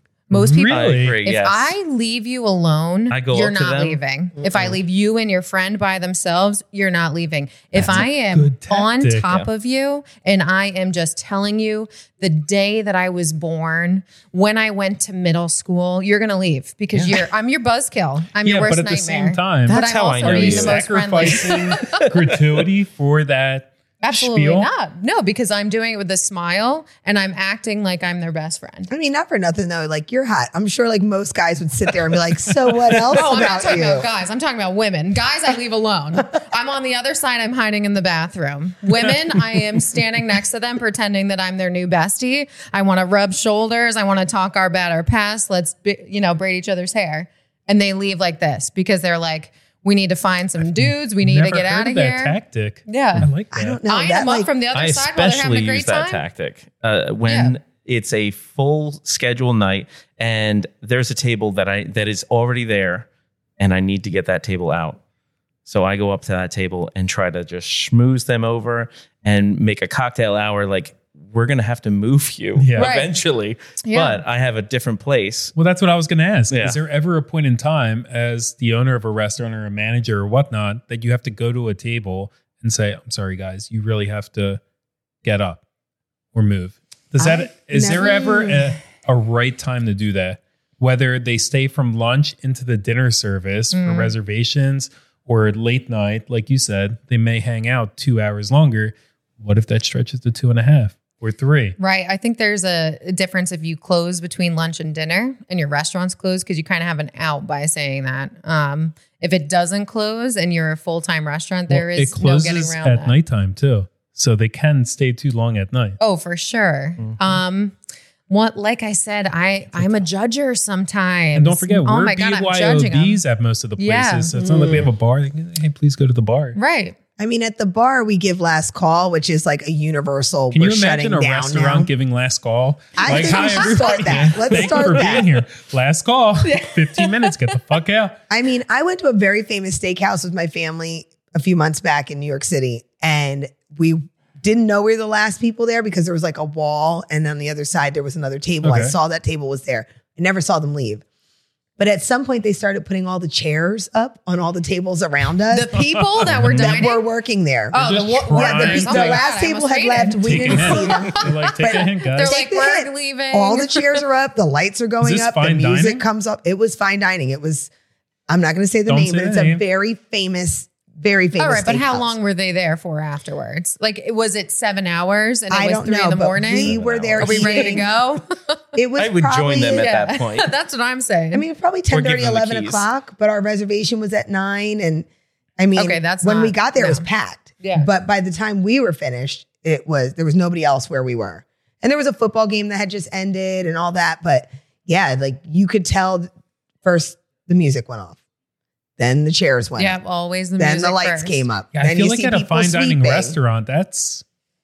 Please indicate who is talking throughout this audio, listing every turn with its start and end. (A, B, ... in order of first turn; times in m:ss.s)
0:00.3-0:22.0 A
0:00.3-0:01.2 B
0:00.7-0:01.8 C
0:03.1-0:04.0 C
0:04.4-0:04.8 D
0:07.8-0:09.3 B
0:16.9-0:17.3 C
0:18.4-0:24.7 B
0:19.7-0:22.1 C
0:24.0-0:28.9 A
0:28.9-0:34.1 D
0:33.1-0:52.4 A
0:50.6-0:53.8 B
0:52.9-0:53.3 A
0:53.5-0:54.5 D
0:53.9-0:56.2 A
0:54.7-1:03.1 C
0:57.3-0:57.6 A
1:03.6-1:05.0 C
1:05.7-1:15.5 C
1:12.6-1:12.9 B
1:12.8-1:13.1 A
1:13.8-1:14.2 A
1:15.6-1:24.6 B
1:16.5-1:16.8 C
1:25.2-1:25.6 B
1:26.3-1:41.8 B
1:27.2-1:28.7 D
1:33.7-1:34.2 A
1:41.8-1:53.2 A
1:51.7-1:56.0 B
1:56.0-1:57.8 A
1:57.0-1:57.4 C
1:58.3-2:03.2 A
1:59.7-2:00.1 B
2:01.4-2:06.6 B
2:03.8-2:04.4 A
2:04.4-2:04.9 D
2:06.6-2:07.0 A
2:07.2-2:11.9 D
2:10.5-2:18.2 B
2:13.0-2:15.3 D
2:13.1-2:14.6 A
2:16.4-2:17.4 A
2:18.3-2:31.0 D
2:28.6-2:29.0 B
2:31.8-2:35.7 D
2:35.5-2:37.0 A
2:35.9-2:36.4 B
2:36.4-2:36.8 C
2:36.4-2:47.7 D
2:37.7-2:41.1 A
2:37.8-2:39.2 B
2:40.2-2:42.4 B
2:42.0-2:44.0 A
2:45.0-2:46.1 B
2:48.3-2:52.2 D
2:48.9-2:49.6 B
2:51.4-2:58.6 A
2:55.5-2:57.9 D
2:56.6-2:57.6 B
2:56.7-2:57.8 C
2:58.8-2:59.9 D
2:59.0-3:00.5 C
2:59.7-3:01.5 A
3:01.3-3:05.1 D
3:01.9-3:02.9 C
3:05.6-3:16.3 D
3:05.8-3:07.1 A
3:07.6-3:07.9 A
3:16.8-3:18.2 D
3:19.0-3:20.0 D
3:19.8-3:21.4 A
3:20.6-3:23.4 D
3:21.7-3:24.2 B